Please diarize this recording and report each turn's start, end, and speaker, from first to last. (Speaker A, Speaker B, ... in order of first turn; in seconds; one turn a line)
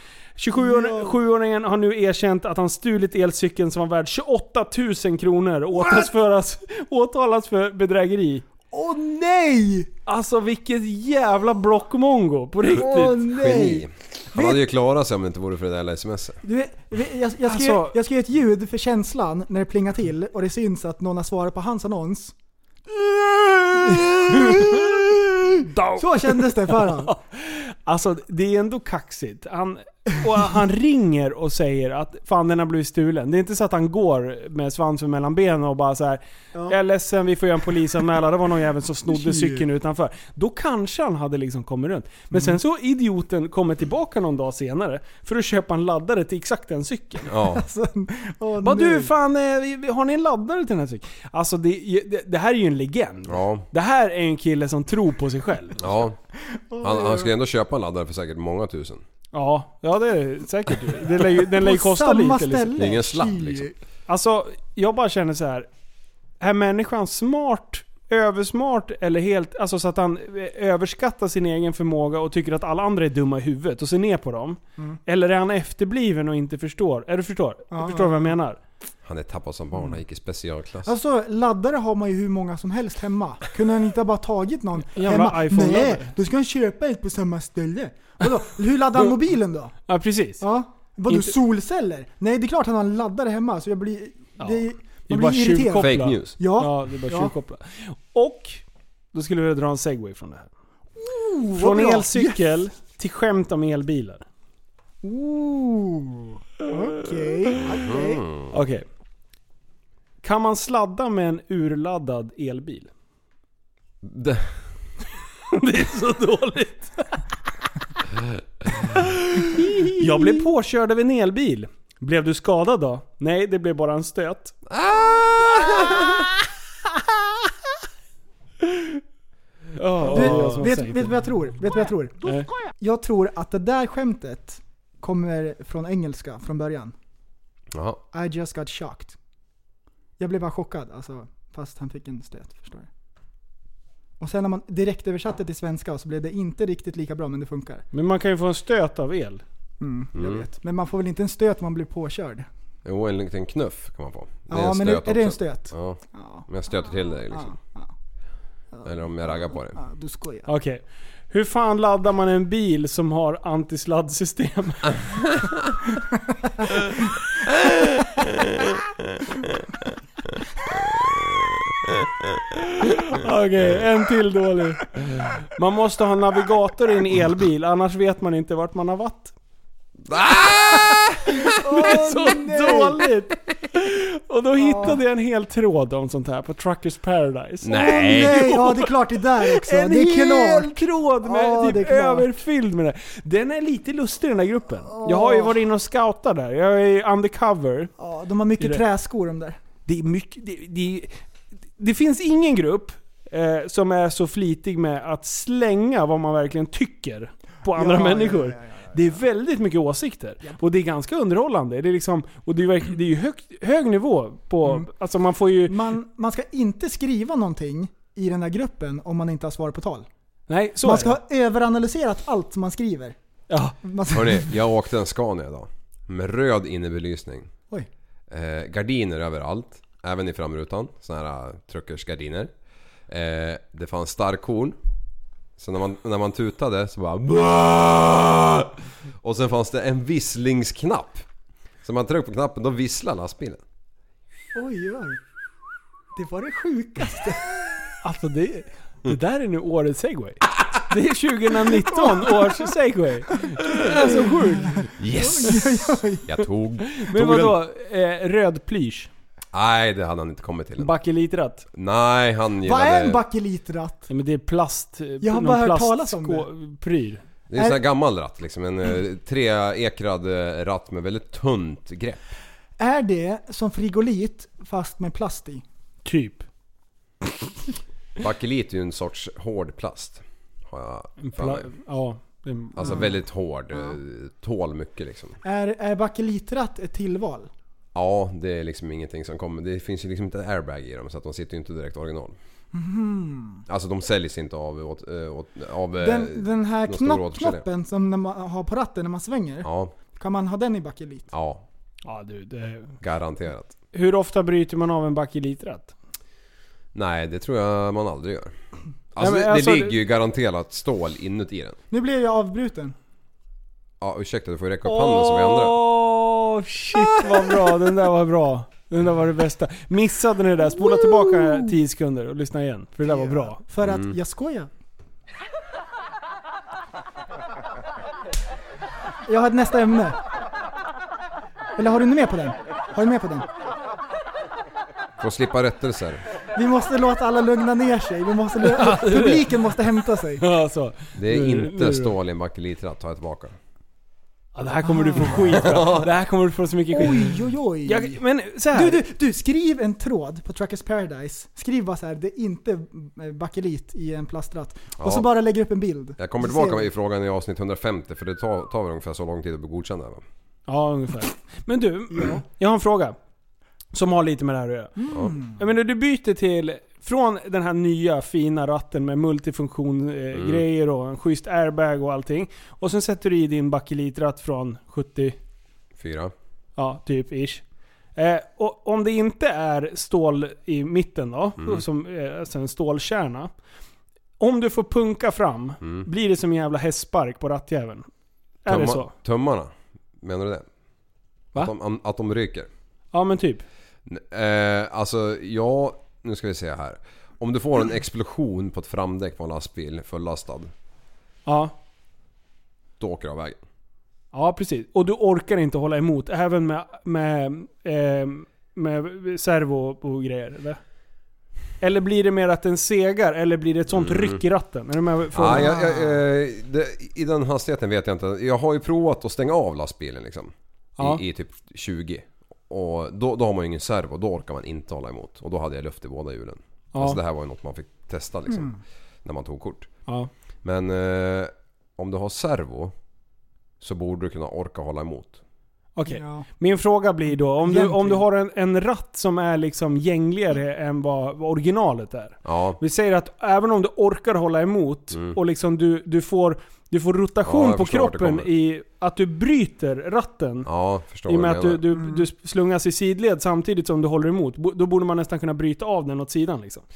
Speaker A: 0.4-8.4
Speaker B: 0.5-1.1
Speaker B: 8.7-9.9
Speaker A: 10.1-13.2
Speaker B: 12.7-14.6
Speaker C: 13.3-16.4
Speaker B: 16.4-22.3
Speaker A: 17.4-17.9
Speaker B: 22.9-27.1
Speaker A: 23.9-24.9
Speaker A: 25.6-47.3
Speaker B: 39.1-39.6
Speaker B: 42.3-42.6
Speaker C: 47.3-47.6
Speaker B: 47.4-49.1
Speaker A: 48.6-55.8
Speaker C: 53.3-53.6
Speaker C: 55.8-56.2
Speaker B: 56.7-57.3
Speaker C: 56.8-59.0
Speaker A: 59.3-62.8
Speaker B: 61.4-63.7
Speaker C: 62.8-63.7
Speaker A: 64.1-65.7
Speaker A: 66.4-78.6
Speaker B: 77.7-78.3
Speaker C: 79.0-80.9
Speaker B: 80.8-89.8
Speaker A: 84.9-86.1
Speaker A: 89.9-90.4
Speaker B: 90.4-97.3
Speaker A: 91.1-91.3
Speaker A: 94.4-100.5
Speaker C: 95.8-96.4
Speaker B: 101.0-102.6
Speaker A: 101.5-104.2
Speaker B: 105.0-108.2
Speaker C: 107.7-108.5
Speaker A: 108.5-108.8
Speaker A: 110.2-112.9
Speaker C: 114.0-114.6
Speaker A: 115.5-117.2
Speaker A: 118.9-124.5
Speaker C: 124.7-126.3
Speaker A: 128.6-129.0
Speaker A: 129.7-131.1
Speaker B: 130.0-136.9
Speaker C: 130.3-130.5
Speaker A: 132.2-132.5
Speaker C: 137.7-138.0
Speaker B: 138.1-139.2
Speaker B: 140.2-142.9
Speaker B: 144.2-147.8
Speaker A: 147.9-149.4
Speaker B: 149.8-152.4
Speaker C: 150.1-150.4
Speaker C: 152.8-157.5
Speaker B: 154.5-156.5
Speaker B: 157.3-157.9
Speaker B: 158.7-160.5
Speaker C: 158.8-159.8
Speaker A: 160.5-165.0
Speaker C: 167.6-168.8
Speaker C: 170.7-172.4
Speaker A: 172.8-174.9
Speaker A: 175.5-179.3
Speaker C: 180.1-181.4
Speaker B: 181.4-183.1
Speaker A: 181.5-197.9
Speaker B: 184.6-185.0
Speaker C: 187.6-188.6
Speaker B: 187.7-192.4
Speaker B: 194.8-195.6
Speaker B: 198.0-199.6
Speaker A: 199.9-201.2
Speaker A: 201.8-215.8
Speaker B: 207.7-209.1
Speaker B: 215.7-220.1
Speaker A: 220.5-221.2
Speaker B: 220.8-223.2
Speaker A: 223.5-223.8
Speaker B: 223.8-224.5
Speaker C: 224.1-227.5
Speaker C: 228.3-232.5
Speaker C: 233.1-234.8
Speaker C: 235.6-241.2
Speaker C: 241.8-243.6
Speaker B: 244.5-245.2
Speaker B: 246.1-247.5
Speaker A: 248.0-254.9
Speaker B: 251.6-252.6
Speaker B: 253.4-256.4
Speaker C: 255.0-257.6
Speaker A: 256.9-259.1
Speaker C: 259.5-260.9
Speaker A: 260.8-261.6
Speaker C: 261.7-263.2
Speaker B: 262.6-264.1
Speaker A: 264.1-267.2
Speaker B: 265.2-266.5
Speaker C: 267.5-272.2
Speaker B: 272.8-275.6
Speaker A: 276.1-276.4
Speaker C: 278.2-281.7
Speaker A: 281.2-283.0
Speaker C: 282.7-285.4
Speaker B: 282.8-283.1
Speaker B: 285.4-287.5
Speaker C: 287.9-292.4
Speaker B: 292.7-293.6
Speaker C: 293.7-297.6
Speaker B: 296.0-301.3
Speaker C: 299.6-299.9
Speaker C: 301.3-301.6
Speaker A: 302.0-302.9
Speaker C: 303.0-303.7
Speaker A: 303.9-305.9
Speaker C: 306.9-308.5
Speaker C: 309.1-311.8
Speaker A: 309.2-310.0
Speaker B: 311.9-312.9
Speaker C: 314.0-315.8
Speaker A: 314.8-323.6
Speaker B: 316.9-317.7
Speaker B: 320.6-321.7
Speaker B: 323.0-324.7
Speaker C: 323.8-324.2
Speaker B: 329.3-330.2
Speaker B: 331.8-333.5
Speaker C: 335.2-336.2
Speaker B: 336.5-340.4
Speaker A: 338.6-339.5
Speaker A: 340.4-342.1
Speaker C: 341.1-343.6
Speaker A: 344.5-349.0
Speaker B: 344.9-345.4
Speaker C: 345.5-346.1
Speaker B: 346.9-348.2
Speaker B: 348.7-356.9
Speaker C: 355.0-355.3
Speaker C: 356.2-360.2
Speaker A: 360.7-363.1
Speaker B: 362.1-362.4
Speaker A: 363.9-364.9
Speaker B: 365.0-365.6
Speaker A: 365.6-375.4
Speaker C: 370.3-370.6
Speaker C: 375.9-376.3
Speaker A: 376.8-377.6
Speaker A: 378.1-383.5
Speaker C: 381.6-381.8
Speaker A: 384.4-388.1
Speaker C: 385.8-386.1
Speaker A: 388.6-389.1
Speaker C: 388.7-390.7
Speaker C: 391.5-392.7
Speaker A: 393.1-393.6
Speaker C: 394.1-400.7
Speaker A: 401.4-401.7
Speaker C: 403.0-403.6
Speaker A: 404.3-410.8
Speaker A: 411.8-415.7
Speaker C: 413.9-414.4
Speaker C: 415.3-429.9
Speaker B: 415.5-416.2
Speaker A: 421.0-421.2
Speaker A: 426.9-427.2
Speaker B: 428.5-428.8
Speaker C: 430.6-432.9
Speaker C: 433.8-435.4
Speaker A: 435.9-450.7
Speaker B: 436.1-436.5
Speaker B: 437.6-438.2
Speaker C: 442.4-442.8
Speaker C: 445.1-445.4
Speaker C: 447.4-448.5
Speaker C: 450.6-451.8
Speaker A: 451.2-456.8
Speaker B: 451.9-452.2